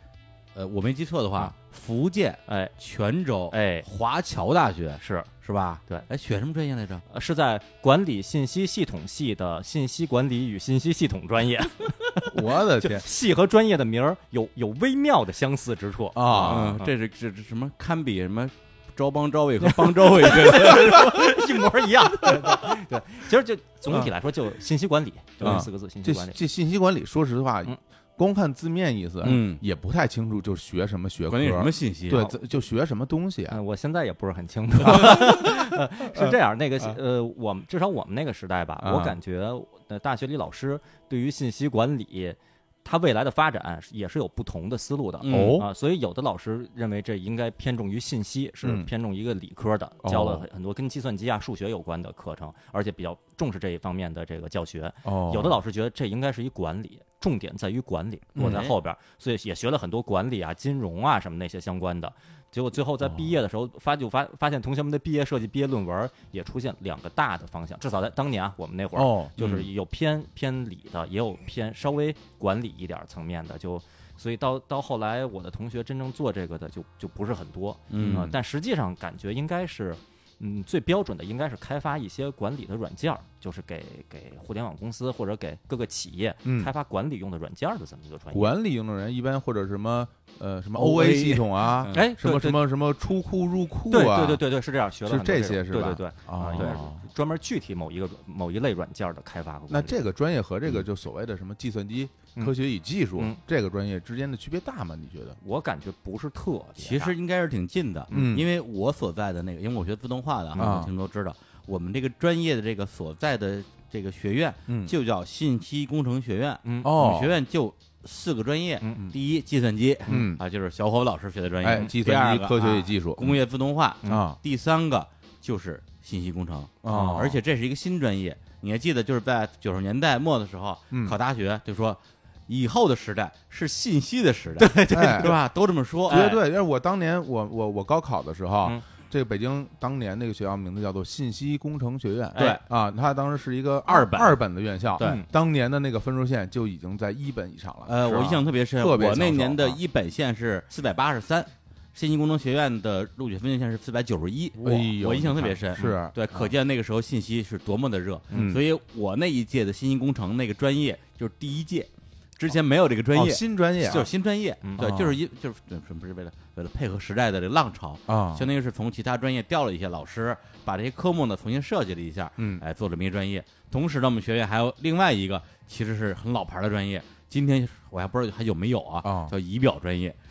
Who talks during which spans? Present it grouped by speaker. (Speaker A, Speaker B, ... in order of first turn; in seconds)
Speaker A: 0.6-7.0, 16.3-21.6, 22.3-22.6, 29.2-29.6, 31.3-32.2, 45.2-45.6, 58.4-58.7, 69.4-69.7, 77.9-78.3, 90.8-92.0, 96.5-96.8, 106.8-136.3, 142.4-142.6, 143.9-144.4, 144.9-145.2, 147.9-180.2
Speaker B: 2.5-2.8, 3.5-3.9, 5.0-5.3, 7.1-16.8, 19.6-26.4, 32.1-32.4, 33.5-88.5, 91.9-92.6, 93.9-100.0, 105.4-107.1, 116.7-116.9, 118.8-119.1, 134.6-135.4, 136.1-136.4, 142.3-142.6, 145.0-145.3, 164.6-165.0
Speaker C: 12.3-13.0, 16.1-16.8, 25.4-33.6, 34.8-37.0, 38.8-39.2, 45.3-45.7, 48.6-48.9, 50.0-50.5, 55.0-55.6, 58.4-58.7, 69.0-69.3, 78.0-78.3, 86.5-86.7, 88.3-94.4, 95.1-97.0, 99.7-105.4, 108.1-108.5, 110.6-110.9, 114.7-114.9, 116.8-117.3, 120.1-120.4, 121.6-123.4, 124.0-124.4, 126.8-127.4, 130.9-131.2, 134.9-135.3, 136.1-149.8, 154.6-156.5, 158.3-158.6, 163.1-164.1, 168.1-168.5, 179.0-179.3